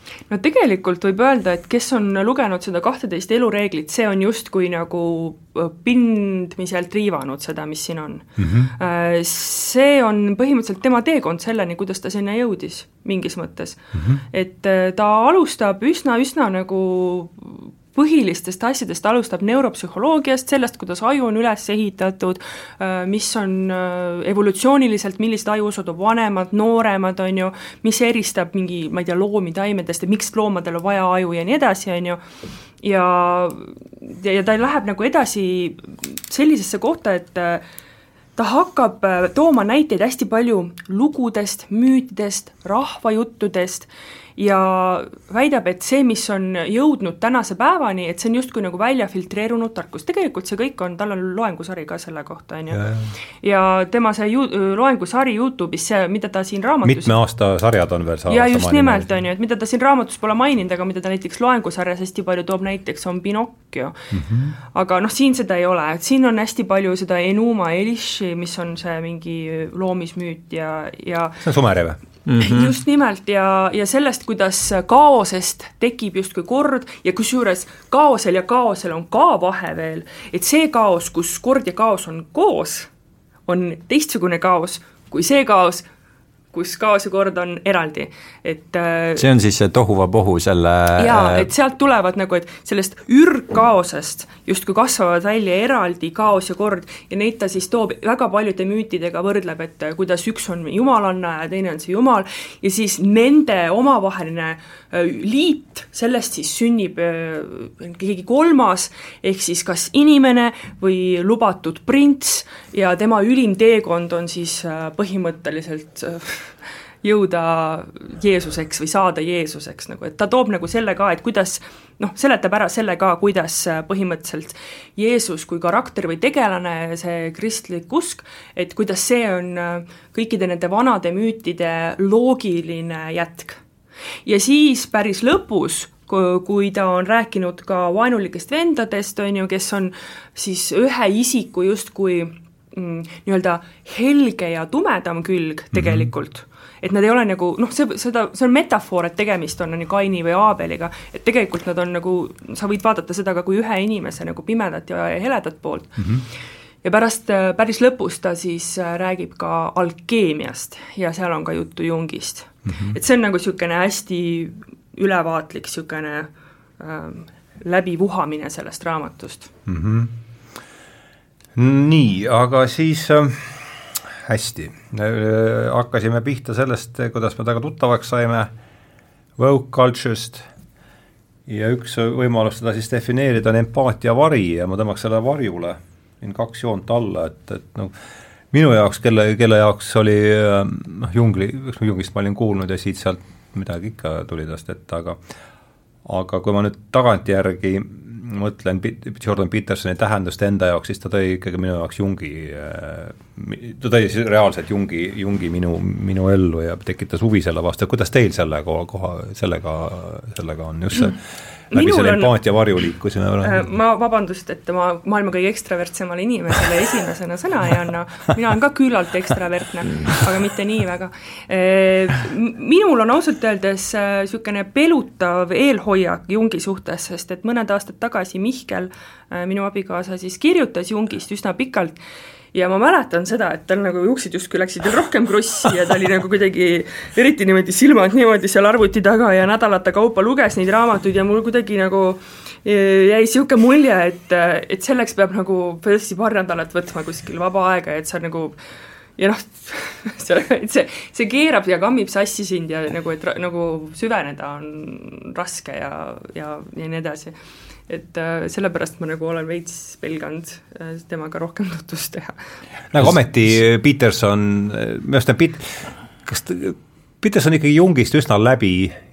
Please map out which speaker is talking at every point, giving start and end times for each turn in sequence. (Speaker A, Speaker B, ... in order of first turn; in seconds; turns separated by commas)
Speaker A: 0.3-32.2, Speaker B: 8.4-8.7, Speaker B: 13.9-14.2, Speaker A: 32.8-37.6, Speaker A: 38.4-52.8, Speaker B: 52.7-53.1, Speaker A: 53.4-57.1, Speaker B: 56.8-59.1, Speaker A: 58.3-64.0, Speaker B: 64.1-64.5, Speaker A: 64.7-71.4, Speaker B: 71.4-72.0, Speaker C: 72.3-72.7, Speaker A: 72.4-82.9, Speaker A: 83.5-85.9, Speaker A: 86.5-89.3, Speaker C: 89.2-91.5, Speaker A: 91.0-133.6, Speaker A: 134.3-156.1, Speaker B: 145.7-146.1, Speaker B: 156.0-156.2, Speaker A: 156.8-169.5, Speaker B: 162.7-163.0, Speaker B: 169.7-170.1, Speaker B: 171.6-178.5, Speaker B: 179.4-180.5, Speaker B: 181.5-187.9, Speaker B: 188.5-195.2, Speaker B: 196.1-211.2, Speaker B: 211.7-213.7, Speaker A: 211.7-212.3, Speaker A: 213.4-232.0, Speaker A: 232.5-248.6, Speaker A: 249.2-257.4, Speaker A: 257.9-262.4, Speaker B: 262.9-269.0